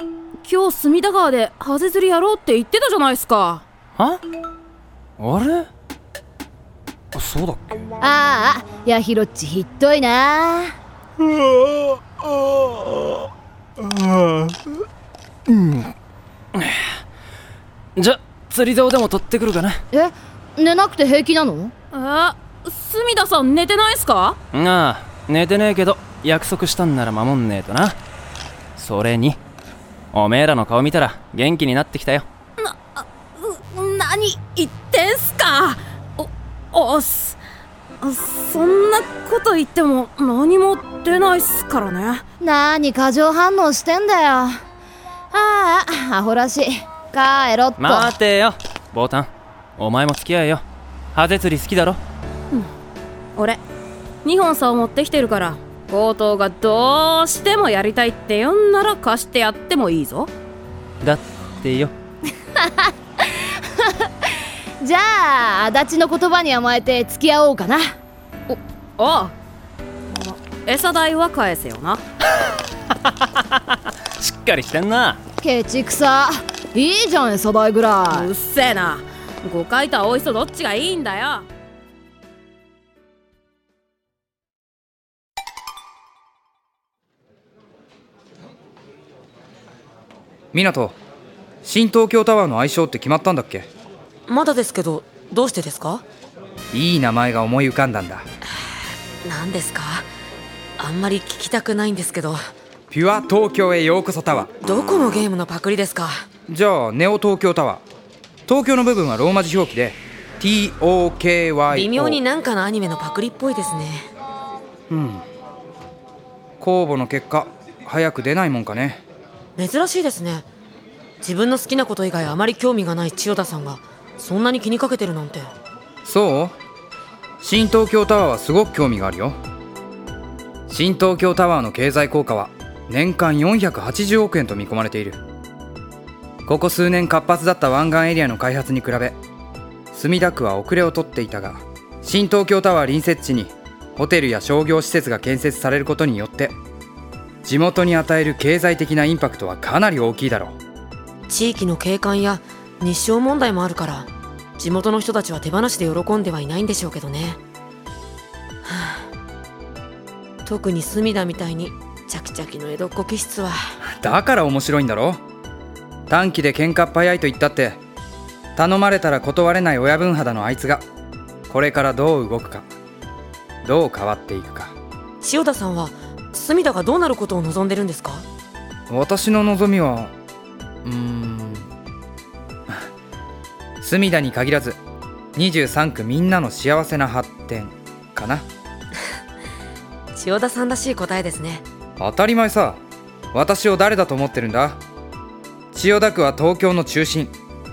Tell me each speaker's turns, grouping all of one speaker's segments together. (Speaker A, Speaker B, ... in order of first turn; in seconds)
Speaker A: 0.4-3.6, 21.9-24.4, 32.6-37.4, 38.0-42.2, 53.4-53.6, 54.2-60.3, 68.5-69.3, 70.1-72.0, 78.1-81.5
Speaker B: 5.2-5.7, 7.1-7.8, 13.9-14.6, 15.5-15.8, 17.9-19.8, 24.5-27.9, 28.8-29.4, 30.1-32.2, 47.8-50.6, 51.1-52.0, 61.0-61.9, 74.2-75.2
Speaker C: 8.0-10.7, 19.9-21.7, 42.4-44.6, 45.3-48.1, 62.6-62.9, 63.8-64.1, 64.8-67.9, 75.4-78.3
Speaker D: 90.5-91.0, 91.6-93.7, 96.7-98.2, 102.9-104.5, 106.5-107.8, 108.5-112.2, 114.9-115.2, 116.6-119.0, 126.0-126.6, 127.4-129.4, 130.7-135.2, 136.5-139.2, 139.9-146.6, 147.4-150.6, 164.0-165.2, 166.1-167.8, 168.6-170.8, 171.5-172.7, 173.6-174.7, 178.9-180.1, 180.8-181.7, 183.8-184.8, 185.3-188.4, 192.0-192.8, 193.3-194.8, 195.7-197.3
Speaker E: 94.3-96.0, 99.2-100.1, 100.8-102.4, 104.6-106.2, 111.7-114.1, 119.6-120.5, 121.2-125.5, 151.3-157.4, 158.7-159.0, 160.4-163.6, 175.2-178.2, 190.2-191.6